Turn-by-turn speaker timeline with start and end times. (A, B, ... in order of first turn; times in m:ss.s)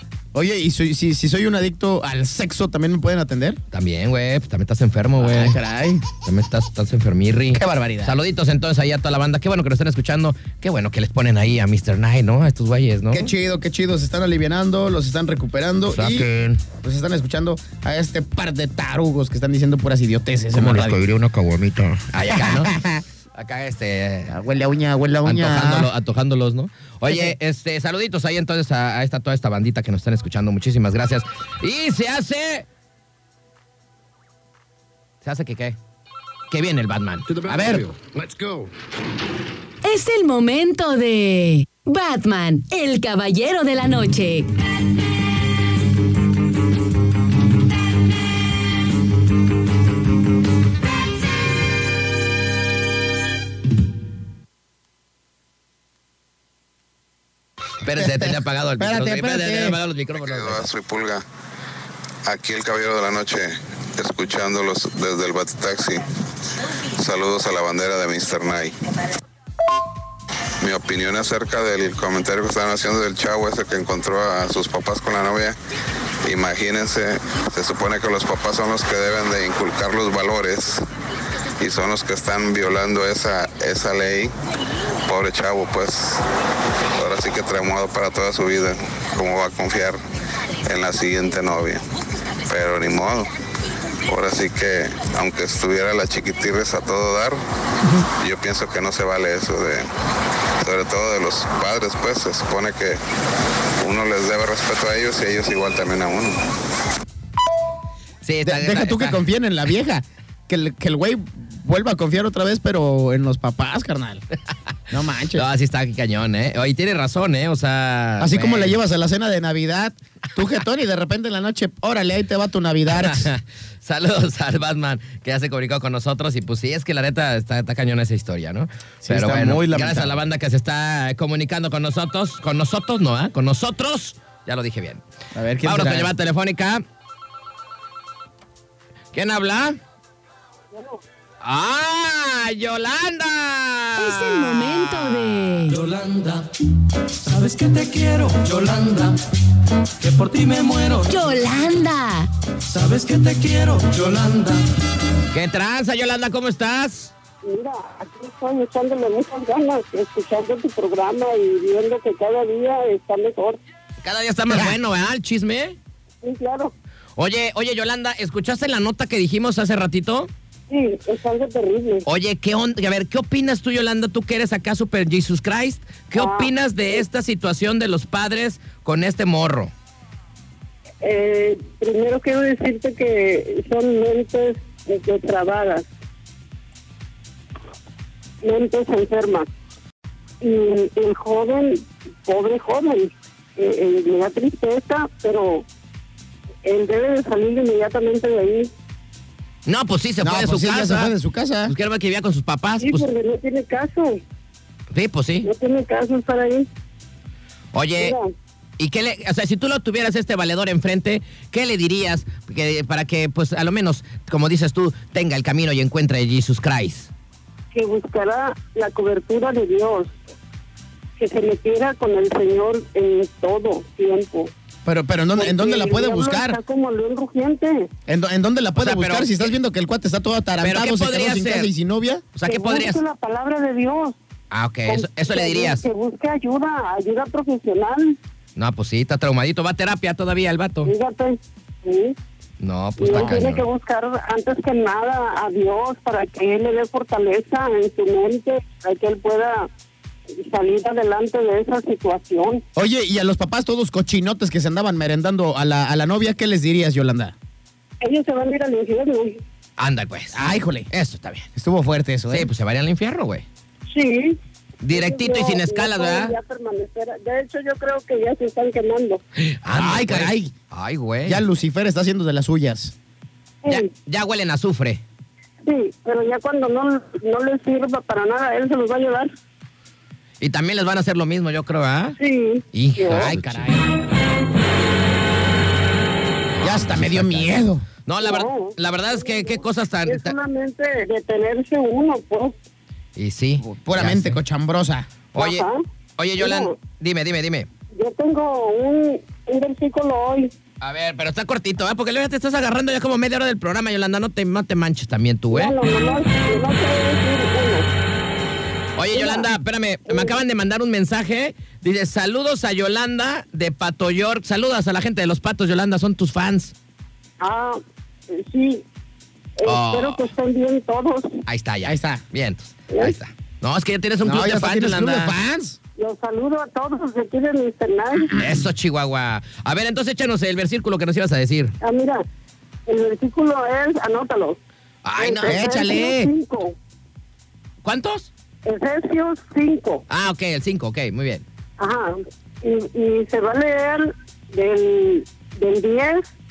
0:00.3-0:03.6 A
0:03.7-0:05.6 B
0:05.2-0:06.0 A
0:06.2-0:13.3 B
0:07.5-0:08.2 A
0:13.1-0:21.0 A
0:15.9-0:16.6 C
0:20.6-0:22.0 C
0:22.1-0:22.7 B
0:22.3-0:23.0 A
0:23.4-0:24.4 B
0:24.3-0:25.9 A
0:25.2-0:32.7 B
0:27.1-0:27.4 A
0:35.2-0:35.8 B
0:36.5-0:37.9 B
0:39.8-0:44.5 D
0:57.8-1:00.7 B
0:58.0-0:59.8 A
1:00.2-1:01.2 E
1:02.3-1:06.1 E
1:06.9-1:08.8 E
1:10.6-1:15.6 E
1:16.2-1:20.8 E
1:21.6-1:24.3 E
1:25.1-1:26.2 E
1:27.0-1:30.0 E
1:30.6-1:31.8 E
1:32.5-1:33.3 E
1:34.1-1:37.4 E
1:38.2-1:39.9 E
1:40.6-1:43.0 E
1:43.8-1:46.4 E
1:48.2-1:49.2 B
1:48.4-1:54.2 A
1:54.9-1:55.5 A
1:55.3-1:58.8 B
1:58.2-2:03.3 A
2:02.9-2:15.0 B
2:09.0-2:10.2 A
2:15.4-2:16.1 A
2:15.6-2:16.8 B
2:19.1-2:19.8 B
2:20.7-2:21.0 F
2:21.4-2:24.9 B
2:24.0-2:25.8 D
2:25.8-2:26.5 G
2:27.2-2:29.2 G
2:30.0-2:31.0 G
2:31.0-2:32.3 D
2:32.7-2:34.6 G
2:35.3-2:37.1 B
2:37.4-2:43.6 F
2:44.0-2:45.8 B
2:46.2-2:46.7 F
2:47.2-2:50.3 B
2:50.7-2:52.0 F
2:52.0-2:59.7 B
2:56.1-2:57.0 F
3:01.0-3:05.9 F
3:08.4-3:09.5 F
3:10.4-3:15.6 F
3:16.6-3:18.7 F
3:19.7-3:21.1 B
3:20.2-3:21.7 A
3:21.7-3:23.1 B
3:22.8-3:24.2 F
3:24.9-3:25.5 B
3:25.4-3:26.7 F
3:27.7-3:28.2 B
3:28.0-3:28.3 F
3:28.8-3:37.1 B
3:37.7-3:40.2 F
3:41.2-3:44.5 F
3:44.8-3:46.6 A
3:45.4-3:47.9 F
3:48.1-3:52.3 A
3:48.8-3:49.5 B
3:50.6-3:51.7 B
3:52.4-3:53.0 B
3:52.4-3:54.2 F
3:54.5-3:55.8 B
3:54.9-3:58.2 F
3:58.6-4:00.9 B
4:00.8-4:02.2 F
4:02.6-4:03.6 B
4:03.0-4:09.7 F
4:10.4-4:12.6 F
4:12.8-4:17.4 A
4:18.0-4:19.4 F
4:19.8-4:21.5 B
4:20.3-4:20.9 A
4:21.6-4:22.5 A
4:22.3-4:23.5 B
4:23.9-4:24.4 F
4:24.8-4:26.4 B
4:24.9-4:29.2 F
4:29.4-4:31.4 B
4:29.7-4:30.5 A
4:31.3-4:32.9 A
4:33.7-4:35.0 B
4:35.6-4:39.3 F
4:40.4-4:42.2 B
4:42.2-4:43.4 F
4:42.7-4:43.9 B
4:46.6-4:50.3 B
4:46.6-4:47.8 A
4:48.2-4:52.6 F
4:53.2-4:54.4 B
4:53.6-4:55.1 A
4:55.3-4:55.6 B
4:55.4-4:55.8 F
4:56.2-4:57.7 B
4:56.4-4:56.8 F
4:57.9-5:00.5 F
5:00.8-5:05.8 B
5:05.5-5:07.9 F
5:09.0-5:16.8 B
5:09.1-5:09.5 F
5:10.1-5:10.3 F
5:17.4-5:18.8 F
5:19.6-5:21.4 F
5:19.6-5:20.3 B
5:21.5-5:25.3 B
5:21.8-5:22.2 A
5:24.2-5:25.8 A
5:26.0-5:28.3 F
5:28.4-5:31.8 B
5:31.8-5:32.2 F
5:32.9-5:34.6 F
5:35.0-5:35.9 B
5:35.2-5:36.8 F
5:35.5-5:36.3 A
5:37.8-5:38.3 B
5:38.6-5:40.0 F
5:40.1-5:41.4 B
5:41.8-5:46.3 F